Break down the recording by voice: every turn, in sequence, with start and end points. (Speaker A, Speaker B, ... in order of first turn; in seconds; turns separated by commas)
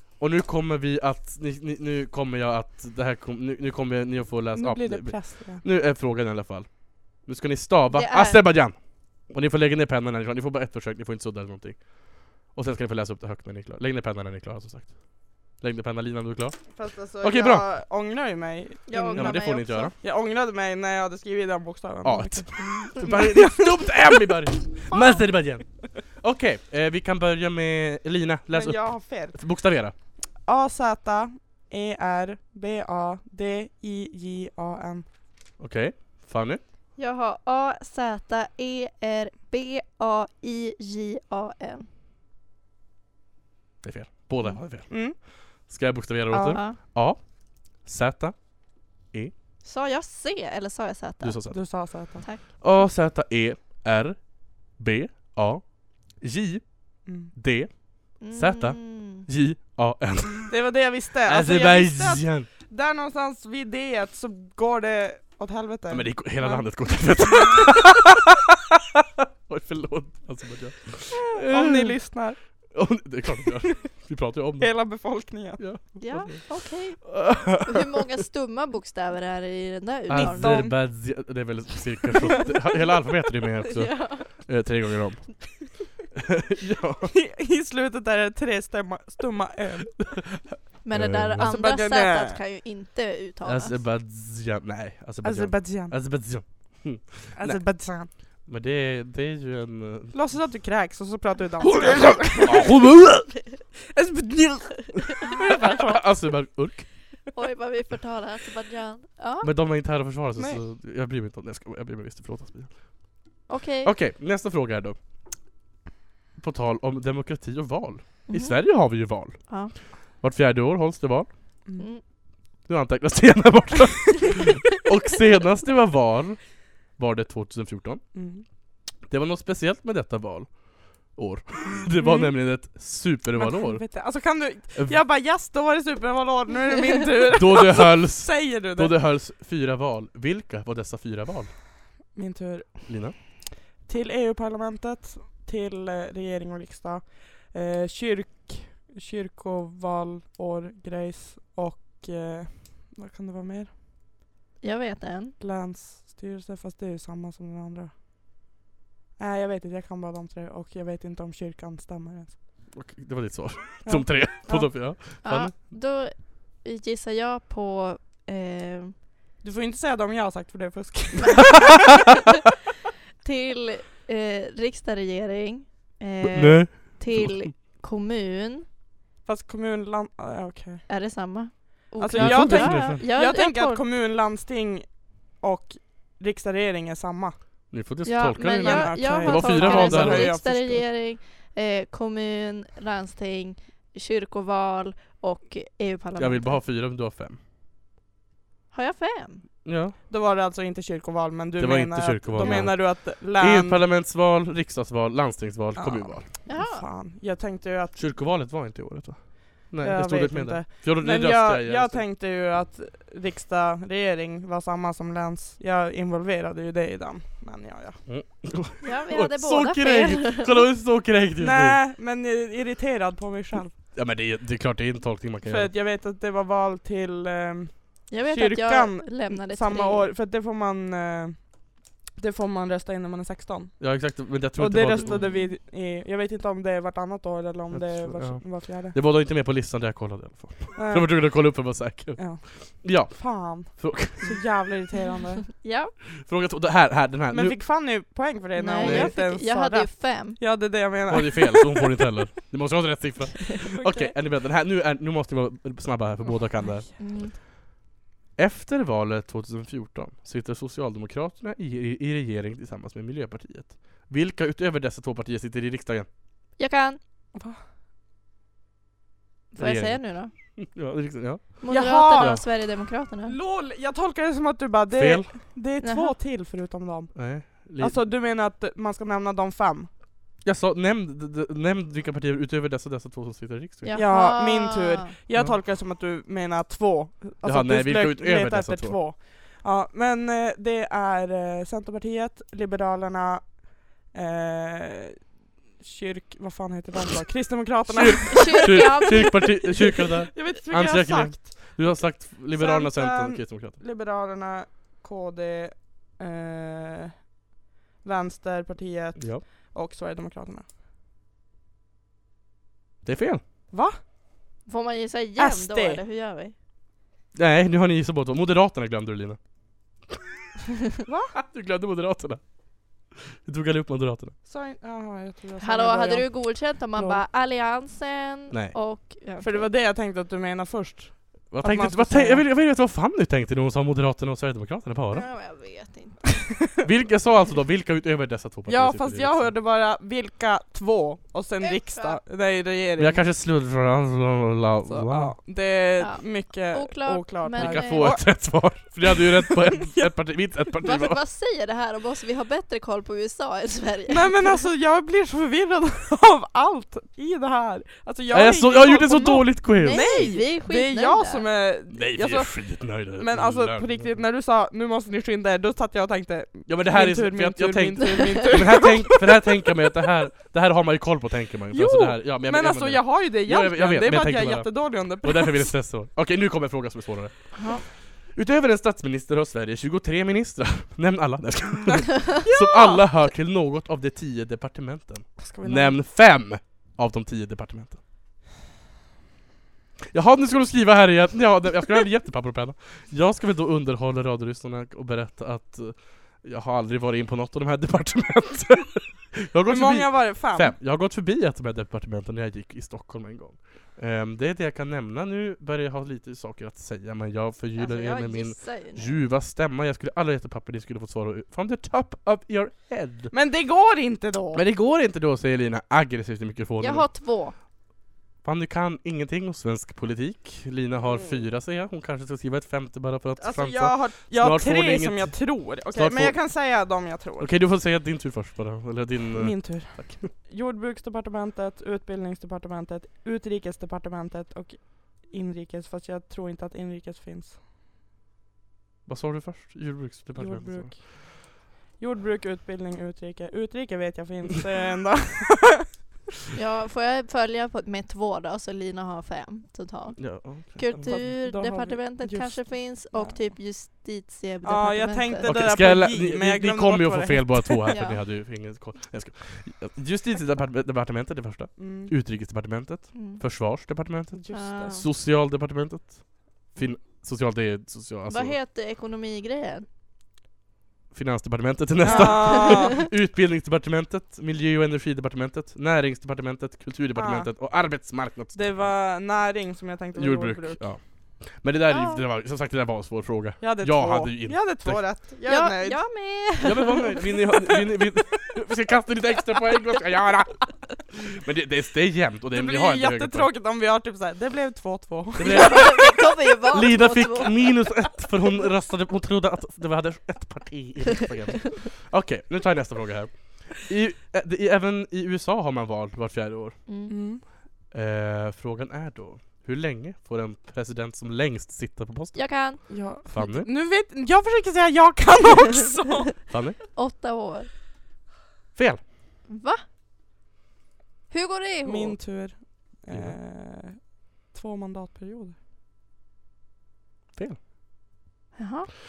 Speaker A: 0.2-17.6, Speaker B: 4.5-5.6, Speaker C: 7.9-8.4, Speaker B: 16.7-24.0, Speaker C: 18.9-19.9, Speaker A: 19.1-19.9, Speaker A: 22.0-29.9, Speaker B: 24.9-25.2, Speaker B: 28.5-29.4, Speaker B: 30.4-35.0, Speaker A: 35.6-36.6, Speaker C: 37.0-41.9, Speaker A: 43.8-49.3, Speaker B: 44.9-45.2, Speaker B: 46.3-46.6, Speaker C: 46.5-46.8, Speaker C: 49.6-51.7, Speaker A: 51.2-51.6, Speaker B: 51.5-52.2, Speaker A: 52.6-60.5, Speaker B: 57.1-57.3, Speaker C: 58.2-59.2, Speaker B: 60.5-66.7, Speaker A: 61.3-62.5, Speaker A: 65.9-68.3, Speaker A: 69.5-72.0, Speaker B: 71.3-72.4, Speaker A: 72.7-74.9, Speaker B: 74.6-75.6, Speaker A: 75.6-77.9, Speaker C: 76.0-80.7, Speaker A: 80.1-87.1, Speaker B: 80.1-80.8, Speaker C: 83.7-84.3, Speaker B: 87.1-90.1, Speaker A: 90.1-91.5, Speaker C: 90.8-93.8, Speaker B: 91.4-92.4, Speaker A: 93.4-97.6, Speaker B: 95.2-96.0, Speaker B: 97.4-98.1, Speaker A: 98.5-100.2, Speaker B: 100.1-102.7, Speaker A: 101.6-103.3, Speaker B: 103.9-106.1, Speaker A: 105.7-106.9, Speaker C: 107.3-109.5, Speaker A: 109.4-113.0, Speaker C: 113.5-113.9, Speaker A: 113.8-115.0, Speaker A: 116.4-119.5, Speaker C: 118.3-118.6, Speaker C: 119.5-119.7, Speaker A: 120.1-121.3, Speaker A: 122.7-128.0, Speaker B: 128.1-128.4, Speaker A: 129.0-133.9, Speaker B: 132.0-132.6, Speaker B: 133.3-138.9, Speaker A: 137.3-141.6, Speaker B: 142.1-143.2, Speaker A: 142.9-143.2, Speaker B: 143.8-153.7, Speaker C: 154.6-155.4, Speaker B: 155.4-157.9, Speaker B: 159.2-162.4, Speaker A: 162.7-165.5, Speaker B: 163.8-164.9, Speaker C: 165.2-169.0, Speaker B: 169.4-171.7, Speaker C: 173.2-178.7, Speaker A: 176.2-177.4, Speaker B: 179.2-180.9, Speaker C: 180.9-183.8, Speaker B: 182.0-187.4, Speaker A: 182.1-183.0, Speaker A: 187.7-190.4, Speaker C: 188.1-196.6, Speaker B: 188.5-190.8, Speaker A: 196.2-197.4, Speaker C: 198.7-199.4, Speaker A: 199.6-199.9, Speaker B: 200.1-203.8, Speaker A: 201.6-206.2, Speaker C: 202.4-202.7, Speaker B: 205.8-208.0, Speaker C: 206.5-206.8, Speaker A: 207.9-212.0, Speaker B: 209.8-218.0, Speaker A: 218.1-221.8, Speaker C: 218.8-220.6, Speaker B: 221.4-223.7, Speaker A: 223.9-225.7, Speaker B: 225.4-238.9, Speaker C: 228.1-230.1, Speaker A: 233.8-235.2, Speaker C: 235.1-235.6, Speaker A: 237.7-244.4, Speaker B: 240.7-245.5, Speaker C: 245.6-245.9, Speaker A: 246.2-247.6, Speaker B: 247.3-251.9, Speaker C: 248.6-250.4, Speaker A: 248.8-249.1, Speaker A: 251.1-256.9, Speaker B: 253.8-254.1, Speaker C: 257.0-257.4, Speaker A: 258.4-266.1, Speaker C: 266.6-267.0, Speaker B: 267.3-267.6, Speaker C: 269.5-270.3, Speaker A: 269.6-270.0, Speaker A: 270.6-272.4, Speaker C: 271.6-273.3, Speaker B: 271.7-272.4, Speaker B: 273.2-279.9, Speaker A: 274.9-275.3, Speaker C: 275.8-276.1, Speaker A: 277.1-278.0, Speaker A: 280.4-284.0, Speaker C: 283.8-285.1, Speaker B: 283.9-299.5, Speaker A: 285.3-285.6, Speaker A: 287.4-289.0, Speaker A: 297.9-303.8, Speaker C: 298.3-299.5, Speaker B: 300.3-307.4, Speaker B: 308.0-310.7, Speaker A: 309.2-309.4, Speaker A: 313.1-313.4, Speaker B: 313.7-314.0, Speaker C: 314.6-316.6, Speaker B: 315.4-316.0, Speaker A: 317.3-319.4, Speaker B: 321.1-321.4, Speaker A: 321.4-324.4, Speaker B: 324.4-327.2, Speaker C: 325.6-329.7, Speaker A: 328.5-328.8, Speaker B: 329.4-332.4, Speaker A: 331.5-335.3, Speaker C: 335.1-336.4, Speaker A: 336.8-339.5, Speaker B: 338.7-343.2, Speaker C: 341.6-342.2, Speaker A: 343.0-345.4, Speaker B: 344.9-350.1, Speaker C: 346.0-348.2, Speaker A: 347.6-351.2, Speaker C: 350.8-354.3, Speaker B: 354.1-369.4, Speaker A: 358.3-360.3, Speaker C: 359.8-361.4, Speaker A: 361.9-364.2, Speaker A: 366.7-388.0, Speaker B: 371.7-375.7, Speaker C: 377.5-377.8, Speaker B: 382.4-383.1, Speaker B: 385.4-386.0, Speaker A: 390.1-413.3, Speaker B: 399.7-400.7, Speaker C: 407.8-409.1, Speaker B: 413.3-414.6, Speaker A: 414.5-417.1, Speaker C: 416.8-417.6, Speaker A: 418.4-426.4, Speaker B: 421.1-421.4, Speaker B: 423.4-427.6, Speaker A: 427.4-430.3, Speaker B: 429.3-437.6, Speaker A: 439.1-440.9, Speaker B: 440.4-446.0, Speaker C: 446.6-455.5, Speaker A: 450.2-451.2, Speaker B: 451.1-453.4, Speaker B: 454.6-457.9, Speaker A: 455.4-468.6, Speaker C: 457.9-458.2, Speaker B: 461.8-462.1, Speaker C: 463.1-463.4, Speaker B: 464.3-465.0, Speaker C: 464.5-465.1, Speaker C: 468.3-469.9, Speaker A: 471.1-478.9, Speaker B: 472.0-472.9, Speaker C: 472.1-472.9, Speaker B: 477.1-477.5, Speaker B: 478.5-480.8, Speaker A: 480.2-485.0, Speaker C: 481.9-482.2, Speaker B: 483.6-486.0, Speaker C: 485.4-487.2, Speaker A: 486.6-493.5, Speaker B: 492.5-496.1, Speaker A: 495.4-496.2, Speaker C: 495.4-497.6, Speaker A: 496.7-506.8, Speaker C: 506.9-507.1, Speaker B: 507.1-507.4, Speaker A: 507.9-513.7, Speaker C: 512.3-512.8, Speaker B: 512.9-516.3, Speaker A: 516.5-516.8, Speaker C: 516.9-517.7, Speaker A: 518.8-519.0, Speaker C: 519.5-519.8, Speaker C: 521.3-522.2, Speaker B: 521.9-525.5, Speaker A: 523.1-523.4, Speaker A: 527.3-527.6, Speaker C: 528.5-528.9